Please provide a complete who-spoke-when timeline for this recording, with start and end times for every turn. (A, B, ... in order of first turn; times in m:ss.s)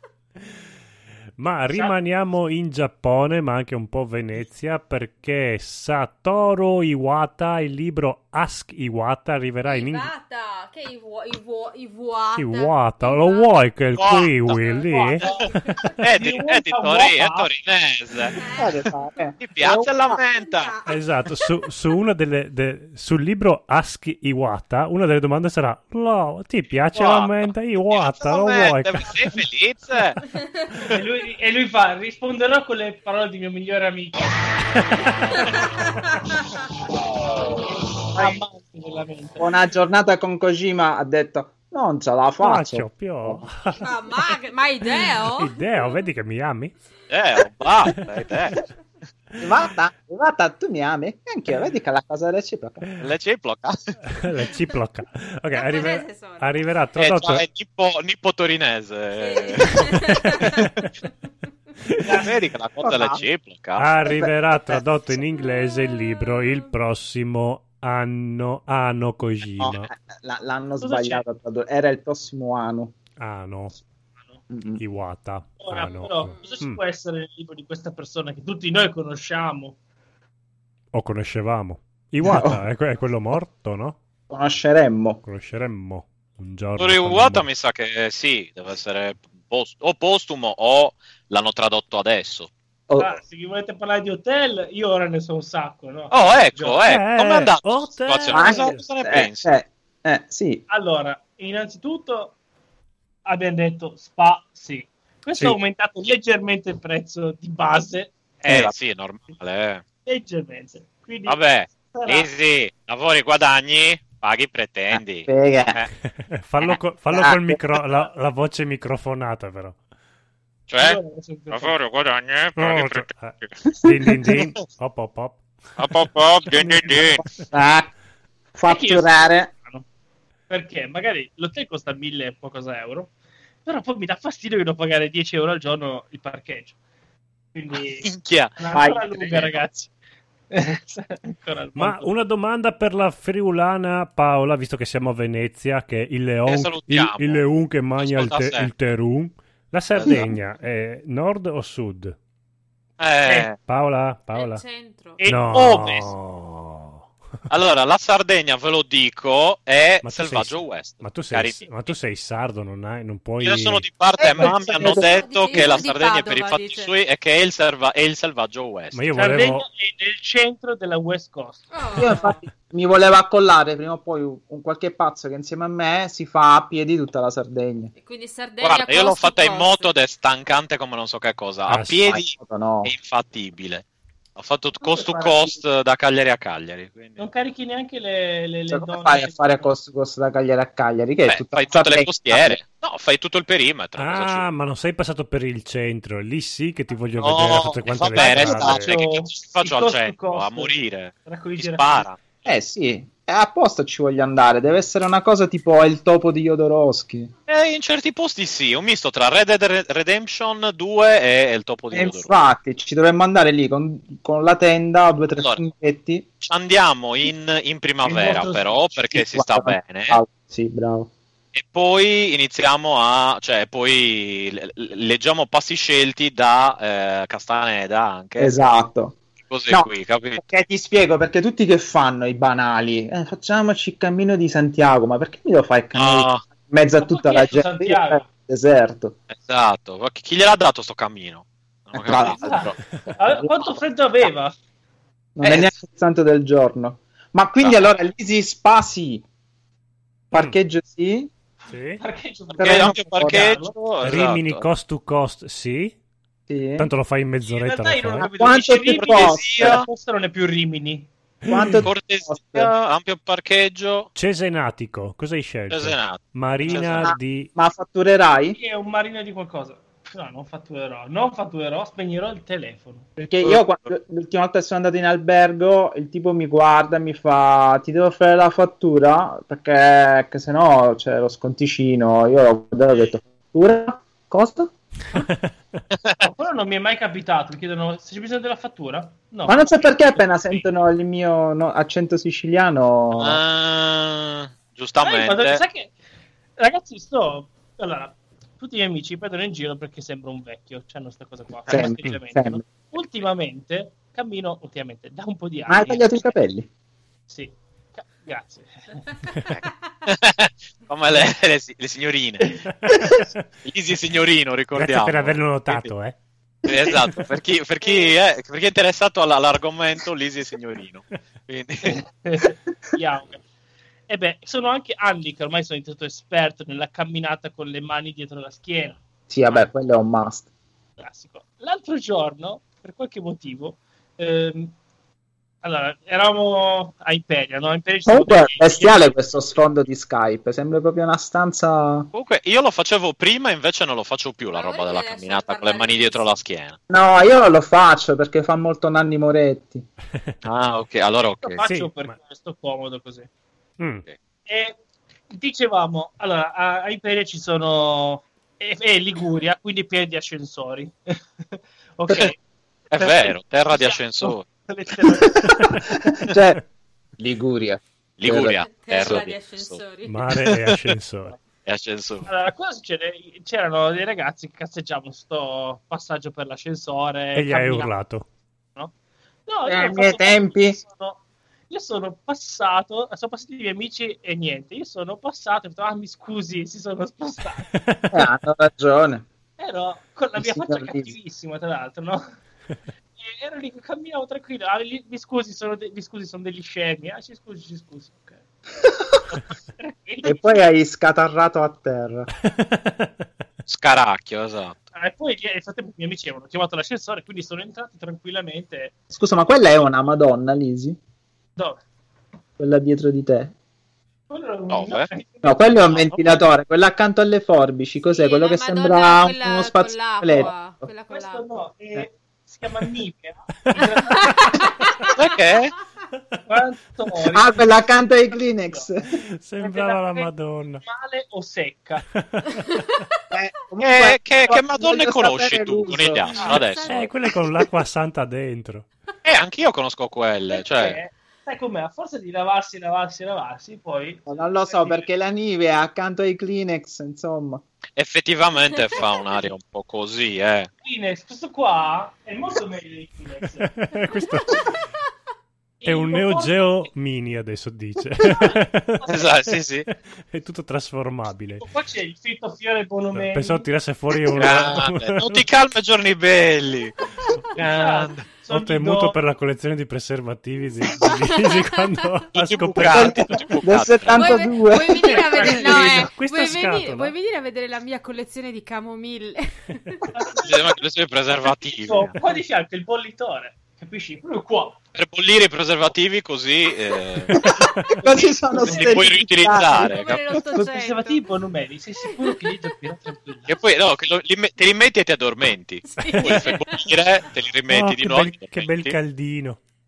0:01.4-0:10.1 A
0:09.6-0:13.6 B
0:12.4-0:16.0 A
0:14.0-0:14.6 C
0:14.6-0:15.2 B
0:14.9-0:15.5 D
0:16.0-0:18.4 C
0:16.1-0:17.5 D
0:18.3-0:18.9 B
0:18.6-0:20.1 E
0:19.4-0:20.8 C
0:20.1-0:21.0 B
0:20.9-0:29.4 A
0:26.9-0:30.2 C
0:30.4-0:30.8 B
0:30.9-0:34.4 D
0:34.7-0:35.6 A
0:35.4-0:35.7 D
0:38.0-0:39.5 D
0:39.4-0:43.4 E
0:42.4-0:43.8 A
0:43.8-0:45.5 B
0:45.2-0:46.8 A
0:47.1-0:48.6 C
0:49.4-0:52.8 E
0:53.0-0:54.0 C
0:54.1-0:57.4 A
0:55.5-0:56.6 B
0:57.0-1:00.4 C
0:59.1-1:00.6 B
0:59.8-1:00.9 A
1:01.8-1:02.1 A
1:02.0-1:02.4 D
1:02.2-1:04.1 C
1:02.8-1:03.2 E
1:03.8-1:09.9 A
1:04.1-1:04.8 E
1:09.6-1:12.9 E
1:10.8-1:11.2 D
1:13.2-1:13.8 A
1:14.5-1:14.8 E
1:14.8-1:16.8 A
1:15.6-1:19.8 D
1:16.2-1:16.6 B
1:20.9-1:24.0 A
1:22.2-1:22.6 E
1:24.3-1:25.2 E
1:25.2-1:27.4 A
1:26.8-1:32.5 C
1:32.9-1:33.2 E
1:33.0-1:36.8 D
1:36.1-1:39.5 C
1:36.8-1:38.8 A
1:38.3-1:40.6 E
1:40.7-1:42.4 D
1:43.2-1:48.7 D
1:48.4-1:49.8 C
1:50.1-1:51.4 D
1:51.2-1:55.9 C
1:51.9-1:52.3 D
1:54.9-1:55.8 E
1:56.1-1:59.8 A
1:57.1-1:57.6 E
2:00.7-2:01.0 C
2:00.8-2:01.8 D
2:01.5-2:03.6 C
2:02.6-2:06.9 A
2:03.8-2:04.4 E
2:05.8-2:07.2 C
2:07.2-2:07.9 E
2:08.6-2:09.5 E
2:08.7-2:09.8 D
2:10.5-2:13.1 D
2:13.6-2:16.8 D
2:17.6-2:19.9 D
2:18.0-2:18.5 C
2:18.7-2:19.6 E
2:20.5-2:22.1 D
2:21.8-2:32.1 A
2:26.4-2:27.4 C
2:28.0-2:28.7 C
2:29.9-2:30.2 C
2:33.0-2:33.6 C
2:33.2-2:33.5 D
2:33.6-2:34.6 A
2:34.3-2:35.2 B
2:35.2-2:36.1 D
2:35.2-2:37.1 A
2:37.5-2:41.8 C
2:40.0-2:43.8 A
2:43.4-2:49.0 C
2:44.2-2:45.8 E
2:44.8-2:46.9 B
2:48.9-2:49.7 A
2:49.2-2:52.1 D
2:51.7-2:52.4 B
2:52.0-2:57.9 E
2:58.0-2:59.9 B
2:58.6-3:07.3 C
3:01.7-3:02.2 A
3:02.2-3:02.9 E
3:04.8-3:05.6 D
3:07.2-3:09.7 D
3:08.7-3:12.6 E
3:11.2-3:14.5 C
3:14.0-3:18.9 A
3:17.2-3:22.2 C
3:18.1-3:20.7 D
3:21.3-3:22.1 D
3:22.4-3:27.3 E
3:27.5-3:32.3 C
3:31.9-3:36.2 E
3:35.4-3:35.6 C
3:36.4-3:40.2 C
3:38.0-3:38.9 D
3:39.1-3:41.1 E
3:41.6-3:48.6 C
3:48.4-3:49.2 E
3:49.5-3:50.4 C
3:49.7-3:59.2 E
3:55.9-3:56.4 C
3:57.0-3:58.3 D
3:59.3-4:02.8 C
4:01.9-4:03.5 E
4:02.2-4:04.5 D
4:05.4-4:09.2 E
4:05.4-4:05.7 C
4:07.6-4:07.9 C
4:10.3-4:11.3 E
4:11.7-4:12.0 A
4:12.0-4:13.8 D
4:12.5-4:13.5 E
4:12.6-4:14.6 C
4:14.0-4:16.0 A
4:16.5-4:16.9 E
4:16.8-4:18.3 A
4:17.4-4:21.1 D
4:18.2-4:19.8 E
4:18.8-4:19.9 C
4:21.4-4:21.9 A
4:21.5-4:22.7 E
4:21.8-4:24.1 C
4:24.2-4:27.5 A
4:25.7-4:27.1 C
4:27.0-4:28.6 E
4:28.6-4:33.1 D
4:33.2-4:44.7 E
4:45.1-4:45.5 A
4:46.2-4:50.6 D
4:49.4-4:53.4 E
4:53.1-4:55.6 C
4:55.0-4:55.9 D
4:56.6-5:06.3 D
5:01.7-5:02.6 E
5:05.7-5:06.7 E
5:07.3-5:09.2 D
5:09.5-5:12.6 C
5:12.8-5:13.4 A
5:13.6-5:15.9 C
5:14.7-5:16.2 A
5:16.6-5:22.0 C
5:22.0-5:23.4 D
5:24.1-5:29.6 D
5:29.3-5:30.5 E
5:31.0-5:34.7 D
5:35.6-5:39.0 D
5:38.1-5:42.1 E
5:42.1-5:46.8 C
5:44.5-5:46.3 B
5:46.9-5:49.8 E
5:50.4-5:51.6 C
5:51.4-5:53.3 D
5:51.6-5:52.1 A
5:53.8-5:54.0 A
5:54.4-5:54.8 D
5:55.3-6:02.4 D
6:02.9-6:04.4 C
6:02.9-6:05.9 D
6:05.2-6:06.6 E
6:07.2-6:08.6 E
6:08.2-6:09.8 C
6:08.7-6:10.3 B
6:10.0-6:11.4 A
6:10.3-6:10.8 C
6:11.6-6:12.3 C
6:12.3-6:17.9 D
6:17.3-6:18.3 A
6:19.5-6:27.7 D
6:19.7-6:20.8 E
6:27.7-6:28.2 A
6:28.1-6:29.2 E
6:29.6-6:32.2 D
6:30.4-6:31.1 E
6:33.2-6:38.4 D
6:38.8-6:39.3 E
6:39.3-6:40.6 D
6:40.2-6:42.3 E
6:42.4-6:43.1 A
6:43.7-6:44.8 C
6:44.9-6:48.9 D
6:49.1-6:51.0 E
6:51.6-6:51.8 D
6:52.6-6:53.5 E
6:54.3-6:56.4 D
6:54.7-6:55.1 C
6:55.4-7:00.9 E
6:58.1-7:01.4 B
7:01.1-7:05.1 D
7:04.1-7:05.2 B
7:05.2-7:05.7 C
7:06.5-7:07.6 D
7:07.3-7:09.1 E
7:09.3-7:10.8 A
7:09.6-7:10.3 D
7:10.8-7:12.0 D
7:12.1-7:12.9 A
7:13.3-7:16.2 E
7:13.8-7:17.0 C
7:16.3-7:17.2 B
7:16.8-7:18.9 A
7:19.2-7:21.0 C
7:20.5-7:25.1 D
7:24.3-7:27.6 E
7:28.0-7:30.7 C
7:30.8-7:33.7 D
7:33.6-7:34.7 A
7:35.8-7:36.9 D
7:35.8-7:39.2 A
7:38.3-7:38.6 D
7:39.1-7:39.9 C
7:39.8-7:41.7 A
7:41.6-7:43.7 D
7:43.1-7:45.4 A
7:44.3-7:46.9 C
7:47.6-7:48.3 C
7:47.6-7:49.2 D
7:48.4-7:53.3 A
7:51.0-7:51.8 B
7:52.3-7:54.4 C
7:52.9-7:55.3 E
7:54.1-8:00.1 B
7:55.1-7:57.1 A
7:55.3-7:56.0 D
8:00.1-8:00.7 D
8:00.4-8:02.1 C
8:01.7-8:04.8 D
8:04.9-8:07.4 C
8:07.3-8:10.0 E
8:07.6-8:08.0 A
8:08.0-8:09.0 D
8:08.6-8:10.2 C
8:09.7-8:11.3 B
8:10.6-8:13.5 D
8:12.0-8:12.4 B
8:13.5-8:19.0 C
8:15.9-8:16.9 B
8:17.7-8:19.6 A